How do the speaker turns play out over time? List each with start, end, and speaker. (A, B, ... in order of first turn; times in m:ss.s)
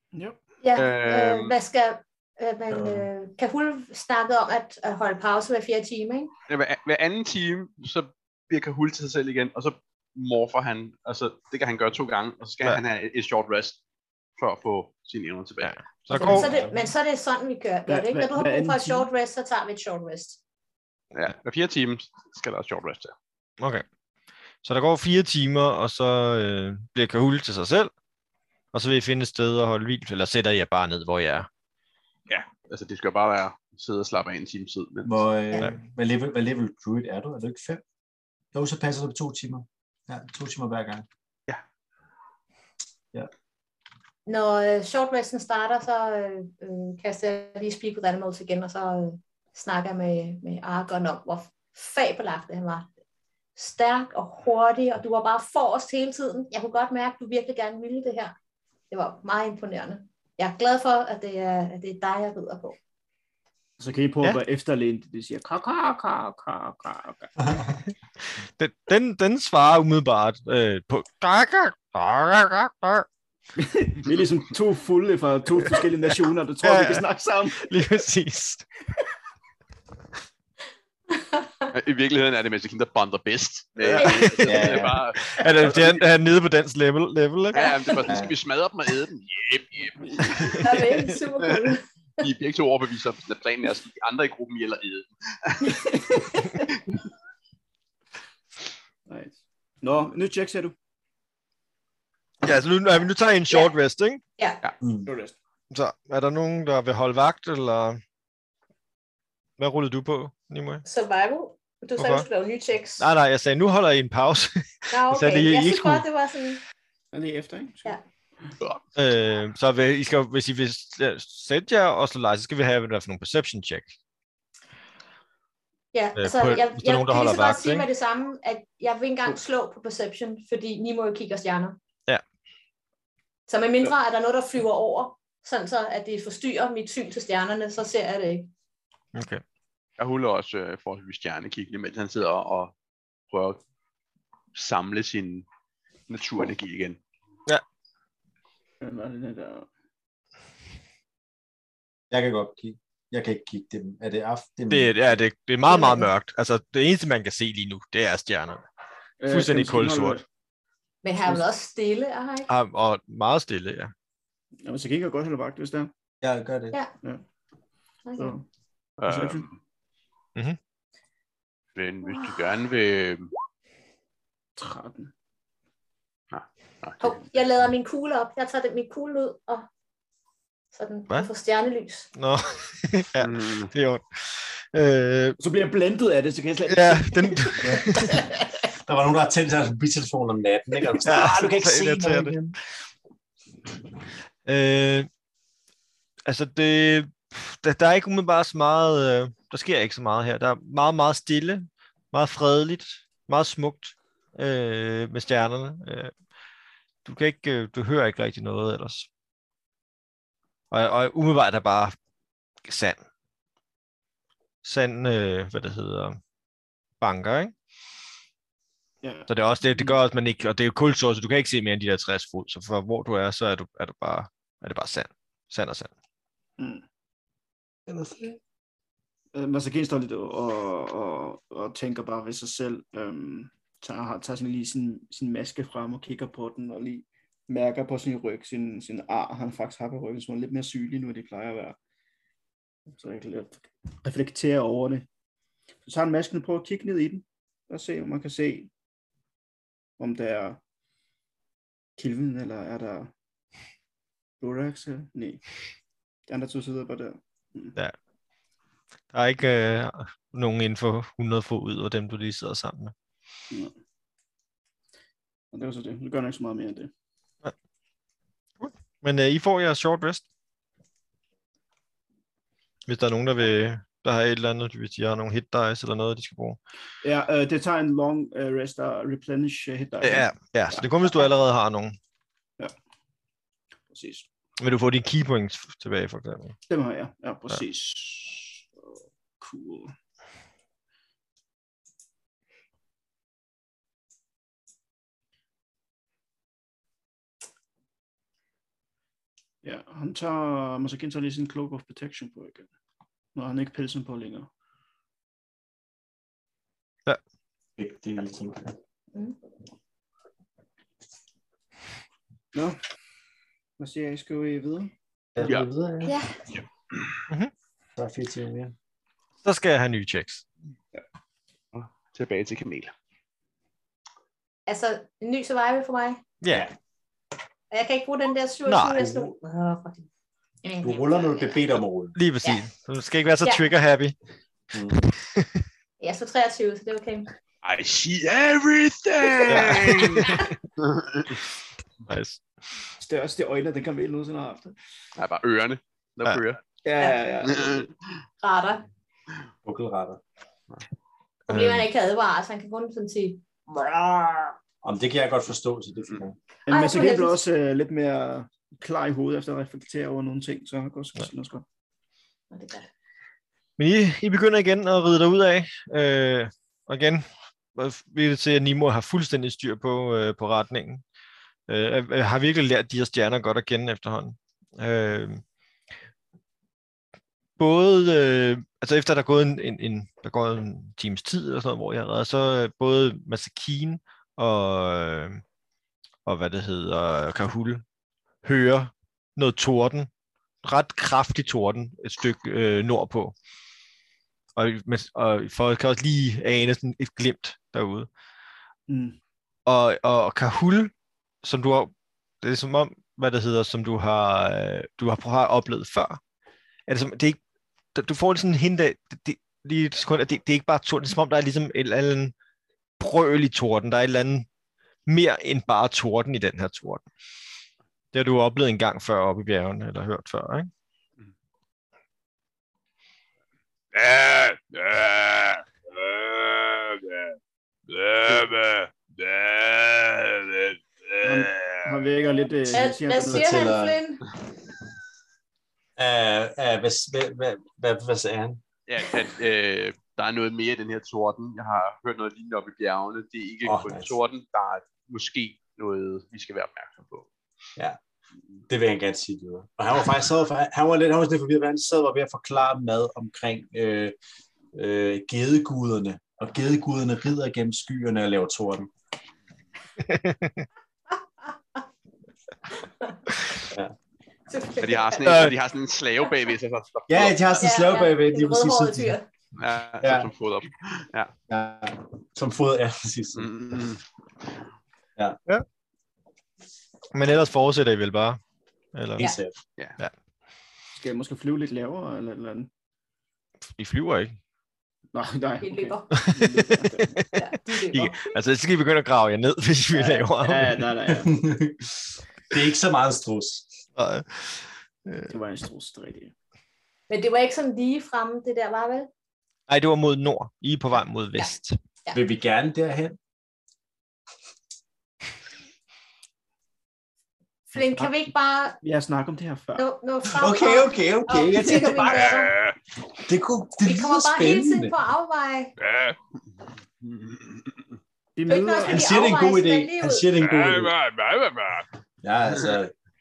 0:00.6-0:06.3 A
0:00.8-0:01.6 B
0:02.7-0:03.1 C
0:06.5-0:13.8 B
0:14.4-0:15.8 B
0:15.6-0:16.7 D
0:16.1-0:20.4 A
0:16.2-0:16.5 E
0:17.9-0:19.1 E
0:21.1-0:23.1 B
0:23.6-0:23.8 D
0:24.6-0:27.9 D
0:28.7-0:31.5 D
0:32.3-0:35.2 B
0:35.0-0:37.8 C
0:38.5-0:41.1 C
0:44.3-0:52.9 A
0:53.6-0:58.3 A
0:58.9-1:02.8 A
1:03.8-1:07.3 E
1:07.9-1:13.1 D
1:13.6-1:17.8 E
1:16.6-1:18.6 D
1:21.7-1:26.0 B
1:24.0-1:24.5 A
1:24.4-1:25.0 C
1:25.2-1:27.7 D
1:27.5-1:28.0 A
1:27.5-1:30.8 B
1:28.1-1:28.4 C
1:30.0-1:30.4 E
1:30.4-1:30.8 D
1:30.6-1:32.2 A
1:31.4-1:36.0 B
1:35.6-1:36.7 E
1:36.7-1:37.0 B
1:39.1-1:40.8 E
1:42.4-1:44.2 D
1:44.8-1:45.1 C
1:45.1-1:45.4 E
1:45.7-1:48.0 D
1:49.6-1:50.8 D
1:50.8-1:53.1 A
1:52.0-1:52.3 D
1:53.0-1:56.0 D
1:54.9-1:56.6 A
1:57.1-1:58.0 E
1:59.0-2:03.9 D
2:05.9-2:11.8 A
2:06.2-2:07.9 D
2:13.5-2:18.5 A
2:19.2-2:19.4 D
2:20.0-2:22.7 B
2:23.3-2:23.6 B
2:24.6-2:25.5 B
2:26.1-2:27.0 B
2:28.8-2:29.7 E
2:32.1-2:35.2 C
2:34.7-2:38.6 D
2:35.7-2:36.1 A
2:39.2-2:40.2 E
2:39.3-2:40.2 D
2:41.0-2:42.5 A
2:42.5-2:43.9 D
2:44.6-2:45.9 E
2:46.2-2:46.8 C
2:48.1-2:48.4 A
2:48.2-2:48.4 E
2:49.0-2:49.5 B
2:49.1-2:49.5 E
2:51.8-2:53.3 B
2:54.6-2:55.1 E
2:56.3-2:57.2 B
2:57.0-2:59.7 A
3:00.7-3:02.1 A
3:02.2-3:05.4 D
3:03.2-3:03.7 B
3:05.4-3:08.3 E
3:06.7-3:08.3 D
3:08.8-3:12.6 C
3:11.0-3:12.6 D
3:14.4-3:15.1 D
3:16.3-3:26.1 D
3:27.0-3:29.1 D
3:30.7-3:32.0 D
3:32.6-3:33.0 D
3:34.6-3:36.2 D
3:37.0-3:37.5 D
3:39.0-3:40.0 E
3:39.3-3:45.9 D
3:46.6-3:46.8 E
3:47.9-3:48.4 C
3:49.3-4:01.8 E
4:02.9-4:05.1 E
4:05.9-4:08.7 E
4:10.0-4:10.6 E
4:12.0-4:13.1 E
4:14.4-4:15.4 E
4:16.3-4:17.8 E
4:19.1-4:22.9 D
4:25.5-4:26.9 E
4:28.6-4:30.2 D
4:32.9-4:36.6 D
4:37.0-4:41.2 E
4:40.0-4:42.0 D
4:43.9-4:44.3 E
4:44.6-4:46.6 D
4:46.7-4:49.9 E
4:59.6-5:02.7 E
5:03.4-5:04.5 E
5:07.8-5:08.8 C
5:12.5-5:12.8 E
5:13.8-5:14.9 E
5:15.4-5:16.2 C
5:15.4-5:15.7 B
5:16.0-5:16.4 A
5:18.0-5:18.8 C
5:19.4-5:20.4 D
5:21.7-5:22.9 B
5:24.7-5:26.2 A
5:26.4-5:26.7 D
5:27.7-5:30.1 A
5:28.6-5:29.0 D
5:28.9-5:29.3 C
5:30.6-5:31.8 A
5:30.8-5:32.2 C
5:32.1-5:34.1 D
5:33.4-5:33.7 A
5:34.7-5:35.1 C
5:35.2-5:35.6 D
5:36.0-5:37.3 A
5:37.6-5:41.4 B
5:39.5-5:40.5 D
5:40.3-5:40.5 A
5:42.1-5:42.4 D
5:43.0-5:44.7 E
5:45.2-5:46.6 B
5:46.8-5:47.9 E
5:47.4-5:47.9 B
5:48.4-5:48.9 A
5:49.6-5:50.2 C
5:51.5-5:51.9 D
5:51.5-5:53.4 A
5:53.7-5:54.5 E
5:54.8-5:56.4 C
5:56.7-6:01.6 E
5:56.7-5:57.4 A
6:02.5-6:02.9 A
6:03.8-6:11.0 D
6:11.7-6:15.4 D
6:17.6-6:25.4 D
6:26.3-6:27.8 D
6:28.4-6:30.1 D
6:30.6-6:33.4 D
6:34.6-6:38.1 D
6:38.9-6:39.2 E
6:39.6-6:46.2 D
6:46.9-6:47.4 D
6:47.9-6:52.3 D
6:53.0-6:54.5 D
6:55.1-6:57.0 D
6:58.1-7:00.7 D
7:03.9-7:07.4 B
7:07.9-7:11.9 B
7:11.2-7:13.7 E
7:12.7-7:14.2 A
7:13.2-7:14.0 C
7:16.0-7:18.6 C
7:18.9-7:27.3 B
7:23.6-7:24.1 C
7:28.7-7:34.1 C
7:34.7-7:38.9 C
7:40.0-7:40.6 D
7:42.8-7:43.2 A
7:44.5-7:45.5 A
7:44.8-7:47.7 B
7:45.2-7:45.5 D
7:47.1-7:49.1 C
7:47.6-7:49.3 A
7:49.6-7:51.3 B
7:50.0-7:50.3 C
7:51.5-7:53.6 C
7:53.4-7:54.0 B
7:57.1-7:58.4 D
7:58.9-7:59.4 D
7:59.2-7:59.6 C
8:00.9-8:02.7 E
8:03.8-8:04.4 D
8:05.1-8:07.2 E
8:05.6-8:06.1 A
8:06.1-8:10.8 D
8:07.3-8:08.2 A
8:09.9-8:11.3 E
8:11.1-8:13.8 C
8:14.0-8:15.3 D
8:15.3-8:16.3 E
8:17.1-8:19.1 A
8:19.7-8:21.8 D
8:22.1-8:23.2 C
8:27.7-8:28.8 A
8:28.8-8:29.8 E
8:29.8-8:32.6 A
8:30.3-8:32.5 C
8:32.1-8:32.7 B
8:33.1-8:35.0 C
8:33.8-8:35.8 A
8:35.8-8:36.2 B
8:37.3-8:37.5 B
8:38.4-8:39.1 E
8:38.5-8:40.3 A
8:38.8-8:41.0 C
8:40.4-8:41.9 B
8:42.2-8:42.9 C